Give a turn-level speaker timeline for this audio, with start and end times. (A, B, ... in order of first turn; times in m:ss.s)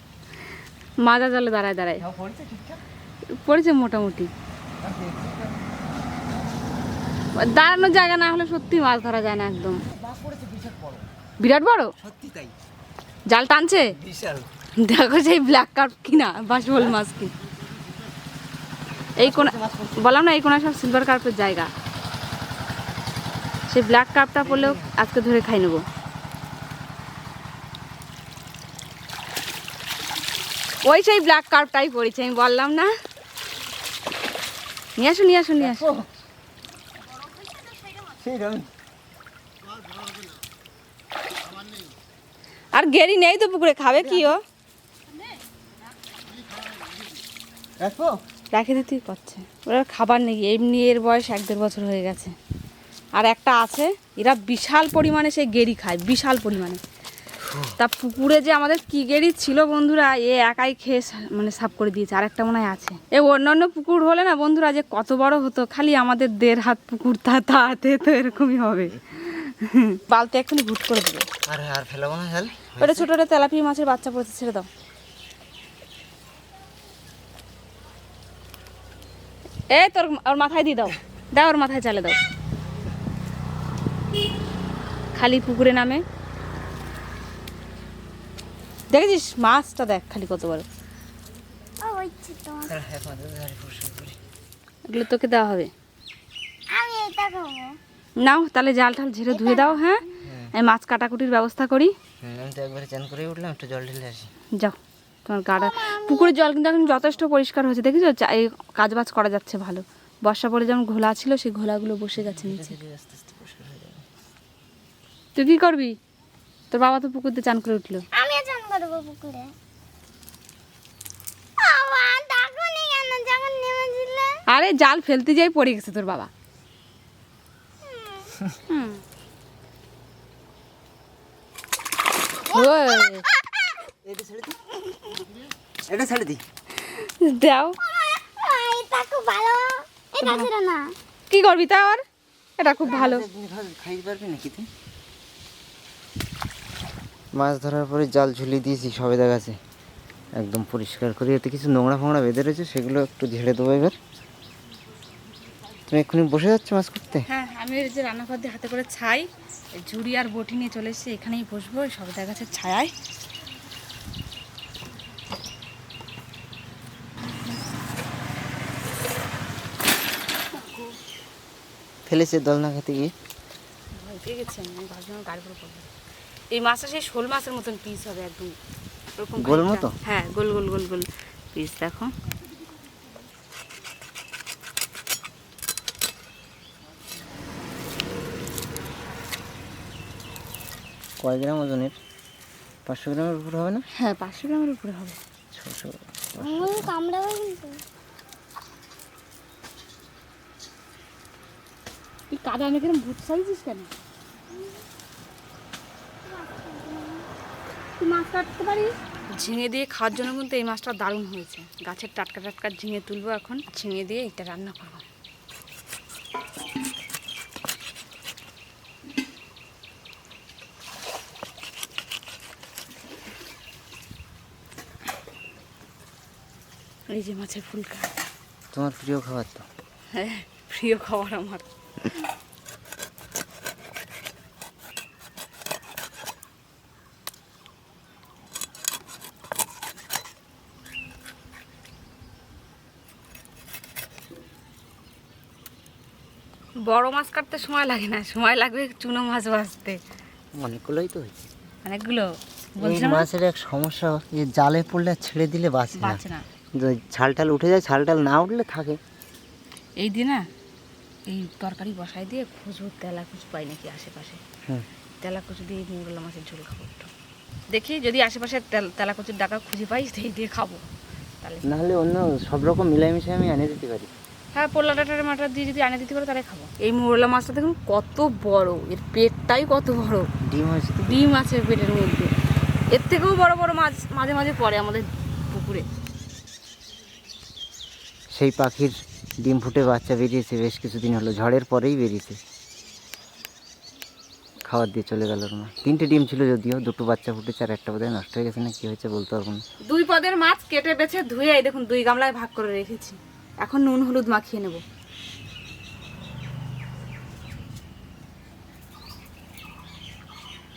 0:01.0-0:02.0 A
0:02.0-0:02.8 B
0:03.3-0:04.3 A
0:04.8-0:05.6 B
0:07.3-0:09.8 A
0:09.9-0:11.1 B
0:11.4-0:11.9 A
0:12.0-0:12.5 B
0:13.3-0:13.9 A
0:14.0-0:14.5 B
0:14.8-0:17.3 A
0:19.2-0:20.0 B
0:19.2-0:21.7 A
0:23.7-0:25.8 A
0:24.4-0:24.9 B
0:30.8-0:32.9 A
0:35.0-0:35.9 A
0:35.6-0:36.1 B
0:37.8-0:38.7 B
0:42.7-0:44.4 A
0:44.0-0:44.4 B
0:47.8-0:48.2 B
0:48.5-0:52.3 A
0:53.1-0:56.8 A
0:57.4-0:57.7 B
0:57.8-1:11.3 A
1:11.5-1:13.1 B
1:12.8-1:14.7 A
1:19.7-1:22.2 A
1:25.1-1:26.0 A
1:28.9-1:30.7 A
1:31.8-1:32.7 C
1:32.6-1:34.2 B
1:34.8-1:35.7 A
1:36.7-1:37.8 C
1:38.2-1:41.9 A
1:39.3-1:40.0 C
1:40.2-1:40.5 B
1:42.2-1:44.3 B
1:44.6-1:52.8 A
1:45.6-1:46.3 C
1:52.2-1:54.0 B
1:55.4-1:55.9 A
1:56.7-1:58.0 A
1:58.1-1:59.5 C
2:01.6-2:04.4 C
2:04.5-2:06.3 A
2:07.8-2:08.3 C
2:08.7-2:09.0 A
2:12.5-2:13.2 A
2:14.0-2:15.3 B
2:15.9-2:16.4 B
2:16.8-2:17.8 A
2:17.8-2:21.0 C
2:20.2-2:20.5 A
2:21.3-2:22.0 A
2:22.6-2:23.2 A
2:22.8-2:24.7 B
2:27.3-2:29.6 B
2:30.4-2:34.0 B
2:35.9-2:37.3 B
2:37.3-2:42.9 A
2:50.5-2:50.9 A
2:52.0-2:53.1 B
2:53.9-2:55.9 A
2:56.5-2:58.6 A
2:59.2-3:02.1 A
2:59.4-2:59.9 B
3:11.2-3:12.0 B
3:12.8-3:13.8 B
3:13.9-3:15.2 A
3:15.5-3:16.9 B
3:16.4-3:17.8 C
3:22.3-3:23.9 A
3:26.2-3:27.3 C
3:28.0-3:35.0 A
3:47.1-3:48.1 A
3:48.7-3:49.6 B
3:50.1-3:51.6 A
4:06.8-4:10.0 A
4:10.5-4:11.5 B
4:11.8-4:13.3 A
4:12.8-4:16.2 B
4:16.0-4:16.4 A
4:16.7-4:19.0 B
4:20.0-4:20.5 A
4:21.3-4:24.4 A
4:25.2-4:27.1 A
4:27.7-4:30.8 A
4:31.6-4:34.1 B
4:34.5-4:40.3 A
4:40.4-4:41.2 B
4:41.0-4:42.3 A
4:42.9-4:45.8 A
4:48.3-4:52.4 B
4:54.6-4:59.6 B
4:59.9-5:04.8 A